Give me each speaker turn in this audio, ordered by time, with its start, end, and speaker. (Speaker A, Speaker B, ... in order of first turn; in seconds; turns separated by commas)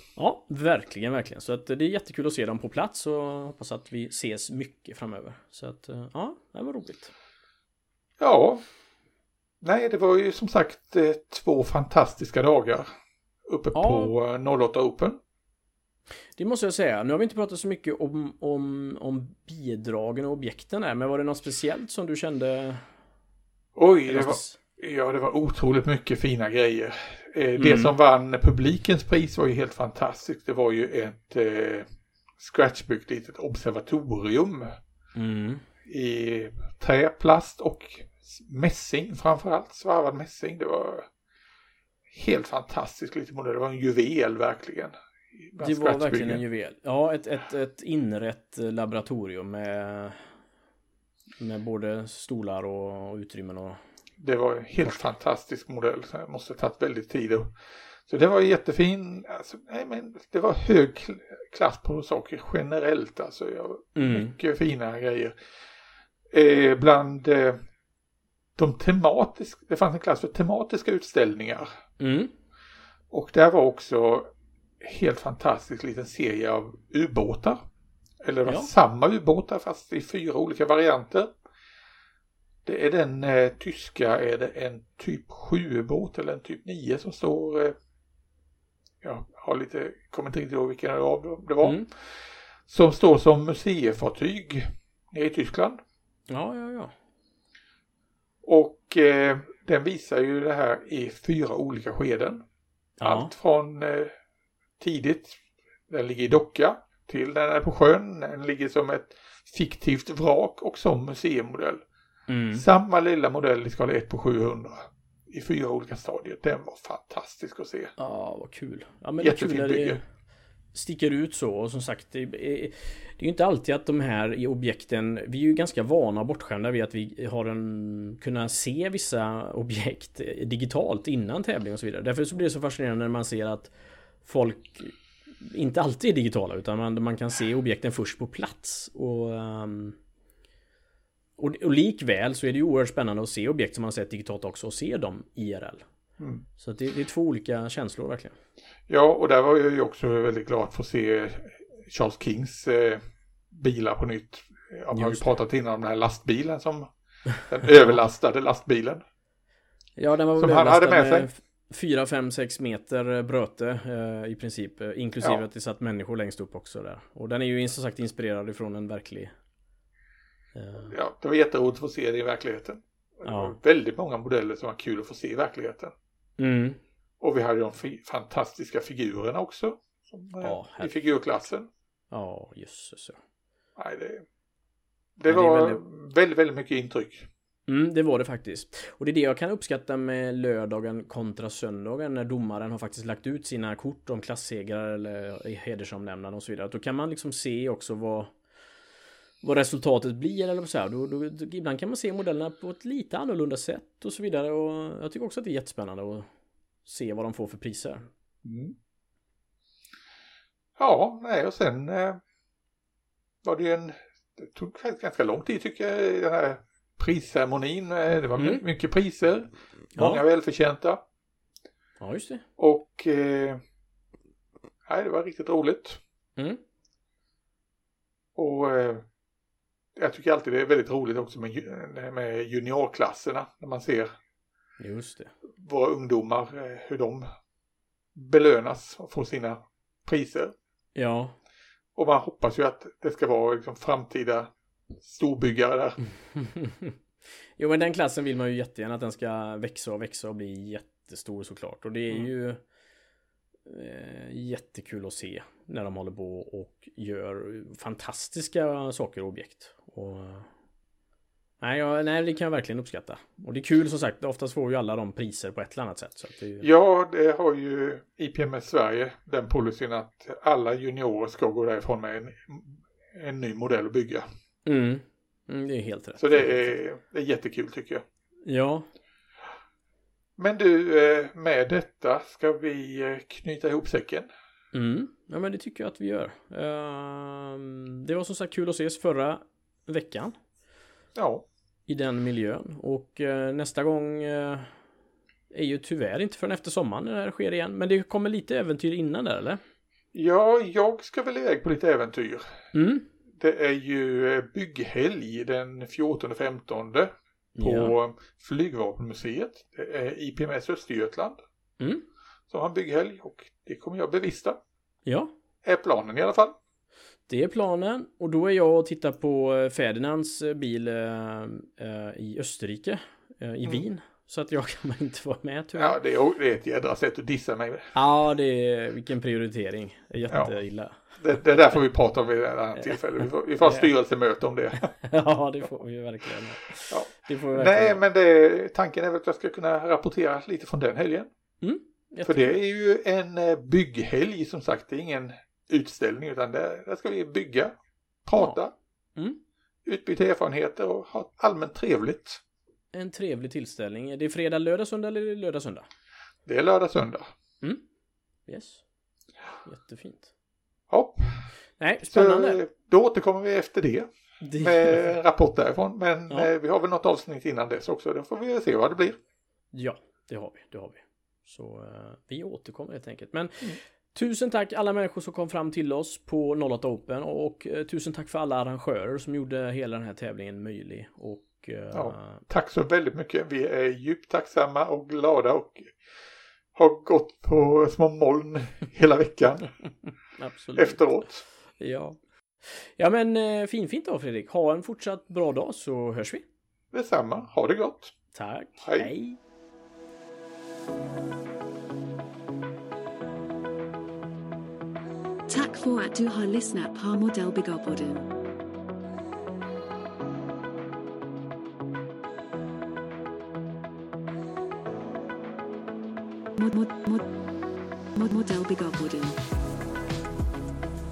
Speaker A: 0.2-7.1, Speaker B: 8.2-8.6, Speaker B: 9.6-12.9, Speaker B: 13.5-15.2, Speaker A: 13.7-14.1, Speaker A: 16.4-22.8, Speaker B: 23.8-31.9, Speaker A: 24.1-24.6, Speaker A: 27.6-27.9, Speaker B: 32.4-34.8, Speaker A: 35.1-35.6, Speaker B: 35.9-41.1, Speaker B: 42.1-44.9, Speaker B: 45.5-46.4, Speaker A: 45.6-50.2, Speaker A: 51.4-53.8, Speaker B: 54.2-57.5, Speaker B: 58.1-65.3, Speaker A: 64.0-64.3, Speaker B: 66.3-67.6, Speaker B: 68.5-71.7, Speaker A: 72.0-72.3, Speaker B: 73.1-77.6, Speaker B: 78.2-81.3, Speaker B: 82.6-87.7, Speaker B: 89.0-91.9, Speaker B: 92.7-95.8, Speaker A: 96.3-96.9, Speaker B: 98.4-102.4, Speaker A: 103.0-103.3, Speaker B: 103.0-104.1, Speaker B: 104.8-105.4, Speaker B: 105.9-111.8, Speaker A: 112.3-112.6, Speaker B: 112.5-117.9, Speaker A: 118.0-120.0, Speaker B: 119.2-120.0, Speaker A: 120.7-133.7, Speaker A: 134.2-139.9, Speaker A: 141.4-145.8, Speaker B: 146.2-146.4, Speaker A: 146.6-148.3, Speaker B: 148.9-153.0, Speaker B: 153.5-156.9, Speaker A: 154.9-155.2, Speaker B: 157.4-159.0, Speaker A: 160.0-169.3, Speaker B: 160.4-161.3, Speaker A: 170.5-170.9, Speaker B: 170.9-175.9, Speaker A: 173.2-173.6, Speaker A: 176.4-176.8, Speaker B: 177.2-181.7, Speaker A: 180.4-181.0, Speaker A: 182.1-183.2, Speaker B: 183.8-184.2, Speaker B: 185.2-187.3, Speaker A: 185.3-185.8, Speaker A: 187.7-198.3, Speaker A: 199.4-206.3, Speaker A: 206.8-208.1, Speaker B: 208.4-208.7, Speaker B: 210.8-212.2, Speaker B: 213.4-221.0, Speaker A: 218.4-218.6, Speaker A: 219.9-220.2, Speaker A: 222.0-222.4, Speaker B: 222.6-223.6, Speaker B: 224.9-226.0, Speaker B: 228.3-229.0, Speaker B: 229.9-234.1, Speaker A: 234.8-235.3, Speaker B: 235.6-237.3, Speaker B: 238.1-240.5, Speaker A: 240.9-241.3, Speaker B: 241.9-246.0, Speaker A: 246.4-246.9, Speaker A: 247.6-252.6, Speaker A: 253.7-260.5, Speaker A: 261.6-266.7, Speaker B: 266.6-274.2, Speaker A: 274.6-276.8, Speaker B: 276.2-278.0, Speaker A: 278.5-278.9, Speaker B: 280.4-284.3, Speaker A: 284.7-290.4, Speaker B: 291.1-291.4, Speaker A: 291.9-294.7, Speaker A: 295.5-299.6, Speaker B: 300.1-302.5, Speaker A: 302.7-303.1, Speaker B: 303.4-307.1, Speaker A: 307.6-307.9, Speaker B: 307.6-311.4, Speaker B: 312.5-314.6, Speaker A: 315.1-315.3, Speaker B: 315.6-316.5, Speaker A: 317.3-326.0, Speaker B: 325.7-327.9, Speaker A: 327.9-331.1, Speaker B: 330.3-330.5, Speaker B: 331.1-334.9, Speaker A: 333.6-333.9, Speaker A: 335.0-338.0, Speaker B: 336.9-341.3, Speaker A: 341.6-342.6, Speaker B: 342.2-347.7, Speaker B: 348.2-348.7, Speaker B: 349.9-352.4, Speaker A: 352.9-355.9, Speaker B: 356.4-357.3, Speaker A: 358.5-358.8, Speaker A: 359.6-360.3, Speaker B: 360.9-361.4, Speaker A: 361.8-362.6, Speaker B: 362.1-364.1, Speaker A: 364.4-365.1, Speaker B: 364.6-369.2, Speaker A: 369.7-382.4, Speaker B: 381.9-385.9, Speaker B: 386.7-389.7, Speaker A: 390.4-391.1, Speaker B: 390.8-391.4, Speaker A: 391.8-396.4, Speaker B: 396.9-398.1, Speaker A: 398.3-399.4, Speaker B: 398.8-399.1, Speaker C: 405.5-408.3, Speaker C: 416.6-417.2, Speaker C: 418.1-419.4